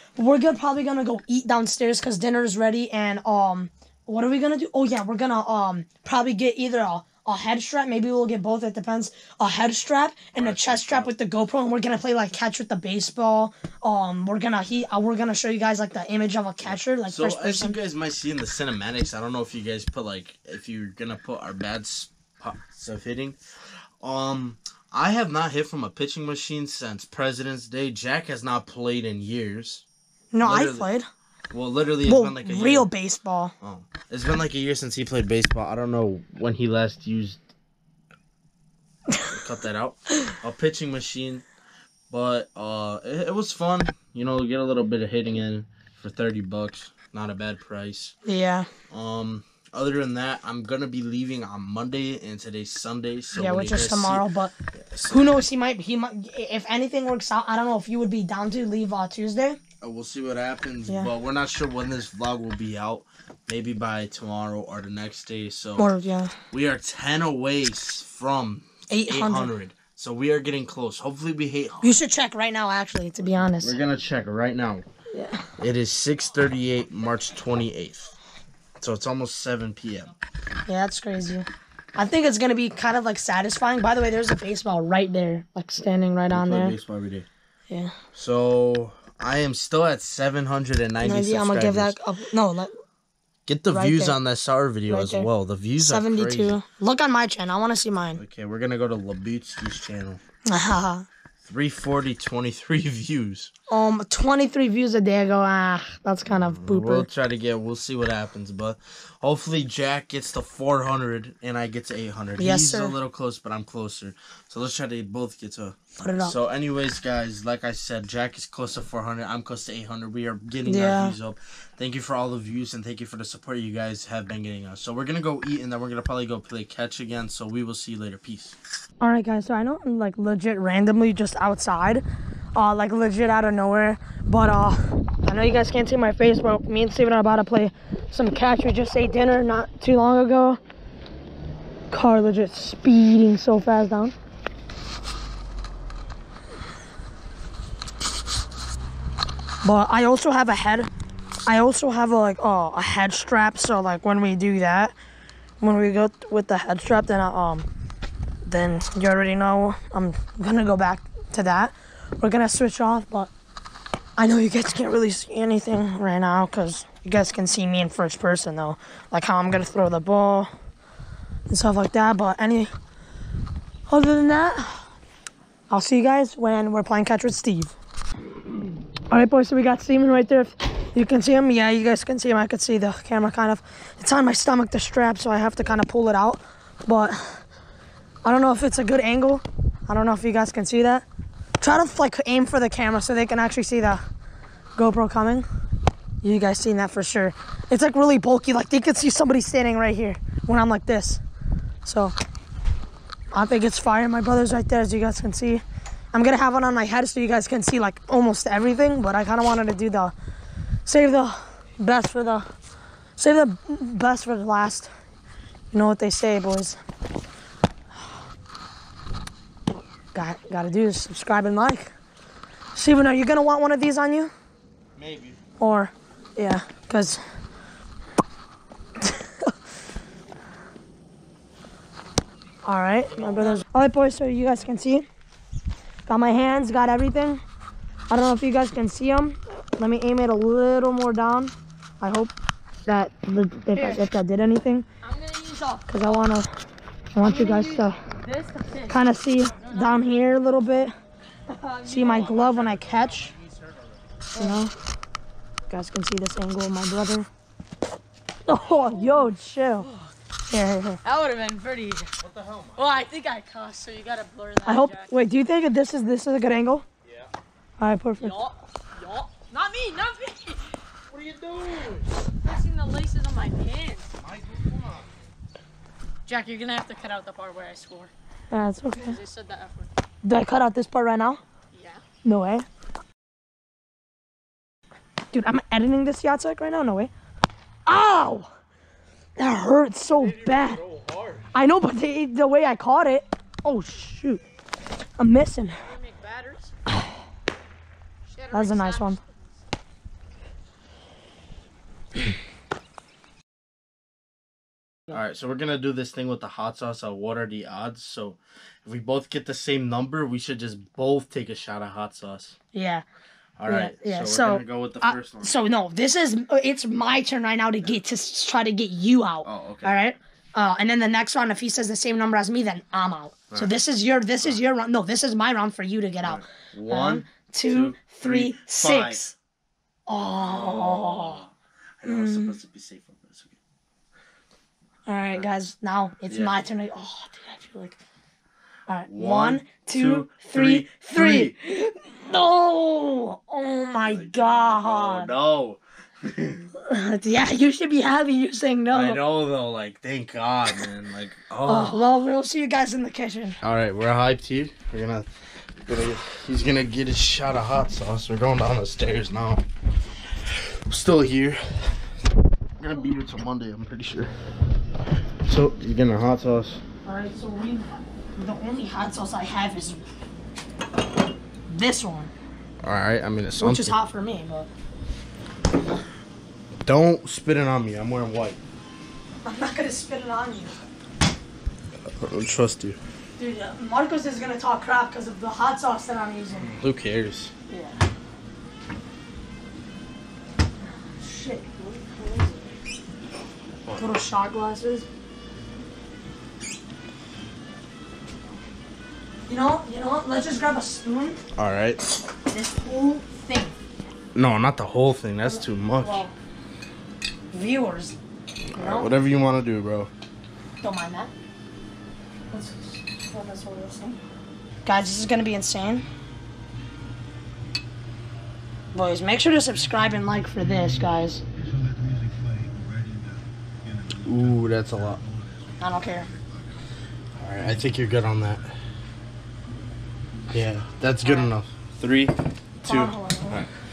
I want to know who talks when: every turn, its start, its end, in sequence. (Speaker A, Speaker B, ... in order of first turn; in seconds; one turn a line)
Speaker A: 0.2-17.8
Speaker B: 10.4-11.1
Speaker B: 16.6-23.4
Speaker B: 24.0-29.9
Speaker A: 30.3-31.1
Speaker B: 30.4-30.9
Speaker B: 31.5-32.9
Speaker A: 32.1-33.5
Speaker B: 33.6-37.4
Speaker B: 39.3-41.5
Speaker B: 42.1-48.1
Speaker A: 48.2-48.7
Speaker B: 48.9-55.4
Speaker A: 53.3-54.5
Speaker A: 55.1-59.6
Speaker B: 59.8-65.9
Speaker A: 65.8-66.3
Speaker B: 66.5-72.0
Speaker A: 68.9-69.5
Speaker A: 71.8-73.8
Speaker B: 73.6-74.9
Speaker A: 75.1-75.5
Speaker B: 75.6-78.2
Speaker B: 78.8-80.1
Speaker A: 80.7-86.8
Speaker B: 86.3-87.3
Speaker A: 87.7-87.9
Speaker B: 88.1-92.0
Speaker A: 91.0-92.8
Speaker B: 93.5-96.6
Speaker A: 93.7-94.2
Speaker A: 94.9-98.2
Speaker B: 98.2-100.2
Speaker A: 100.5-101.0
Speaker B: 101.4-103.5
Speaker A: 103.7-107.1
Speaker B: 106.3-128.6
Speaker A: 112.4-113.0
Speaker A: 116.0-116.4
Speaker A: 120.7-121.2
Speaker A: 129.0-132.0
Speaker A: 132.6-140.6
Speaker A: 141.9-144.2
Speaker A: 149.6-150.9
Speaker A: 151.4-155.0
Speaker A: 155.6-157.7
Speaker A: 158.4-163.3
Speaker A: 164.2-170.5
Speaker A: 171.5-172.7
Speaker A: 173.9-174.9
Speaker A: 175.7-177.8
Speaker A: 179.1-187.4
Speaker A: 188.2-191.1
Speaker A: 191.6-194.0
Speaker A: 194.8-195.5
Speaker A: 196.2-201.2
Speaker A: 201.8-202.2
Speaker A: 203.3-210.1
Speaker A: 210.9-212.5
Speaker A: 213.2-214.9
Speaker A: 215.7-216.8
Speaker A: 220.1-221.9
Speaker A: 222.8-224.3
Speaker B: 225.0-225.4
Speaker A: 225.6-227.2
Speaker A: 229.0-229.5
Speaker A: 232.7-235.1
Speaker A: 236.1-237.4
Speaker A: 238.1-242.3
Speaker A: 242.9-244.9
Speaker C: 243.7-244.0
Speaker C: 245.0-246.3
Speaker A: 245.9-246.5
Speaker A: 247.1-248.0
Speaker C: 247.2-249.0
Speaker A: 248.9-250.9
Speaker C: 249.6-250.0
Speaker C: 251.5-252.2
Speaker A: 251.8-253.3
Speaker B: 252.0-254.0
Speaker C: 254.3-254.6
Speaker A: 254.3-254.7
Speaker A: 255.7-257.3
Speaker A: 258.5-259.9
Speaker A: 260.5-261.0
Speaker C: 261.0-262.1
Speaker B: 262.2-263.0
Speaker C: 262.8-265.1
Speaker A: 264.6-266.9
Speaker A: 267.8-268.4
Speaker C: 268.2-270.8
Speaker B: 271.1-272.1
Speaker C: 272.4-274.1
Speaker B: 274.2-275.1
Speaker C: 276.3-278.1
Speaker A: 278.5-279.2
Speaker C: 278.9-279.9
Speaker A: 280.2-281.4
Speaker C: 281.7-282.0
Speaker A: 282.2-282.7
Speaker A: 285.3-287.1
Speaker A: 287.9-288.5
Speaker A: 289.4-290.8
Speaker B: 290.1-291.6
Speaker A: 291.5-294.4
Speaker A: 295.2-295.8
Speaker C: 295.8-296.7
Speaker C: 298.3-299.4
Speaker A: 298.5-299.2
Speaker B: 305.1-312.6
Speaker A: 312.7-313.1
Speaker B: 313.6-315.6
Speaker A: 313.7-329.4
Speaker B: 319.4-320.0
Speaker B: 326.2-329.2
Speaker A: 330.1-331.4
Speaker B: 330.4-333.6
Speaker A: 332.0-332.6
Speaker A: 335.1-338.0
Speaker B: 336.3-336.6
Speaker A: 338.9-345.3
Speaker B: 339.1-341.6
Speaker B: 344.0-346.7
Speaker A: 346.8-349.2
Speaker B: 348.9-352.1
Speaker A: 351.6-353.6
Speaker B: 353.6-355.3
Speaker B: 355.8-359.6
Speaker B: 360.4-362.0
Speaker B: 362.8-364.3
Speaker B: 365.4-366.8
Speaker A: 367.1-370.0
Speaker A: 371.7-372.3
Speaker B: 372.8-374.0
Speaker A: 373.6-374.7
Speaker B: 376.9-378.6
Speaker A: 379.4-380.8
Speaker B: 382.2-383.0
Speaker A: 383.4-386.7
Speaker B: 386.6-387.5
Speaker A: 387.7-388.0
Speaker A: 391.0-392.6
Speaker A: 394.0-395.1
Speaker A: 399.5-401.4
Speaker B: 401.6-402.0
Speaker A: 402.5-403.8
Speaker B: 404.4-406.2
Speaker A: 405.4-406.3
Speaker A: 407.5-408.2
Speaker B: 408.7-410.1
Speaker A: 408.7-409.1
Speaker A: 410.8-411.3
Speaker A: 412.5-414.2
Speaker A: 414.9-416.1
Speaker A: 418.9-421.4
Speaker B: 424.1-425.2
Speaker A: 425.8-426.3
Speaker B: 427.4-428.7
Speaker B: 430.5-433.7
Speaker A: 432.8-433.6